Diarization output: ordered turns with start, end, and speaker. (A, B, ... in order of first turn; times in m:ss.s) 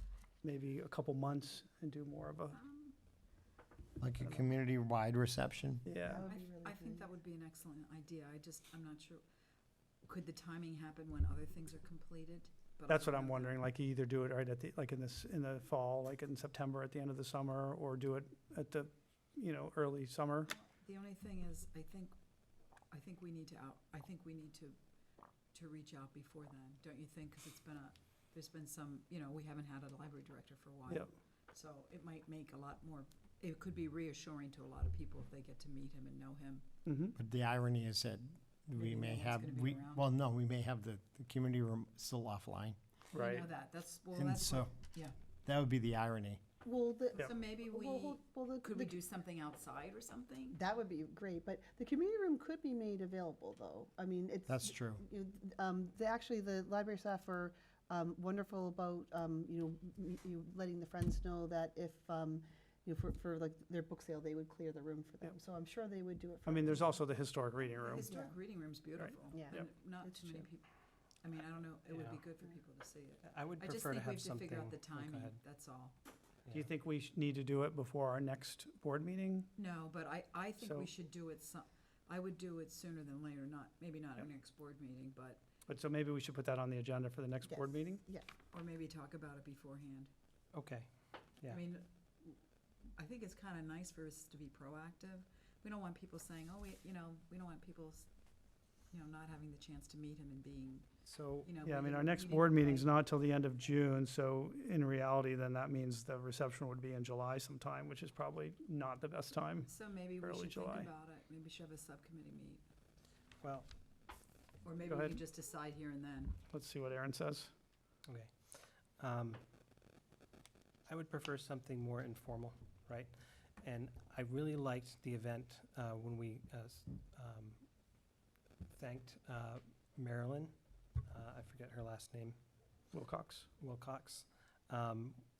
0:00.4-0:02.6 A
0:02.5-0:02.9 B
0:04.0-0:05.8 C
0:05.8-0:06.2 A
0:06.0-0:07.1 D
0:06.2-0:09.2 B
0:10.0-0:13.6 B
0:12.9-0:20.5 A
0:20.5-0:22.1 B
0:22.9-0:24.8 B
0:25.5-0:36.7 B
0:36.8-0:37.2 A
0:37.2-0:42.8 C
0:38.8-0:40.1 B
0:43.1-0:45.2 B
0:43.1-0:43.5 A
0:44.2-0:44.7 C
0:45.4-0:46.4 C
0:46.6-0:49.0 D
0:47.2-0:50.6 B
0:50.5-1:07.0 D
0:54.5-0:55.0 C
1:06.5-1:08.1 A
1:07.8-1:10.6 B
1:07.9-1:08.4 D
1:09.0-1:09.7 A
1:09.3-1:10.5 D
1:11.2-1:15.9 B
1:11.9-1:12.2 E
1:13.2-1:15.4 E
1:16.5-1:19.5 A
1:19.6-1:25.4 B
1:20.6-1:20.9 A
1:25.7-1:28.0 A
1:27.4-1:28.3 D
1:28.5-1:30.1 B
1:30.5-1:30.9 E
1:31.5-1:32.4 B
1:33.0-1:38.1 B
1:38.9-1:40.9 B
1:41.1-1:41.5 E
1:41.4-1:43.0 B
1:41.6-1:50.9 A
1:49.6-1:52.6 B
1:53.4-1:53.7 E
1:54.6-1:56.4 B
1:54.9-1:55.2 A
1:56.5-1:57.5 A
1:58.1-1:59.4 E
2:00.9-2:07.6 E
2:08.8-2:10.5 E
2:11.1-2:12.4 E
2:12.9-2:13.5 A
2:13.6-2:15.2 E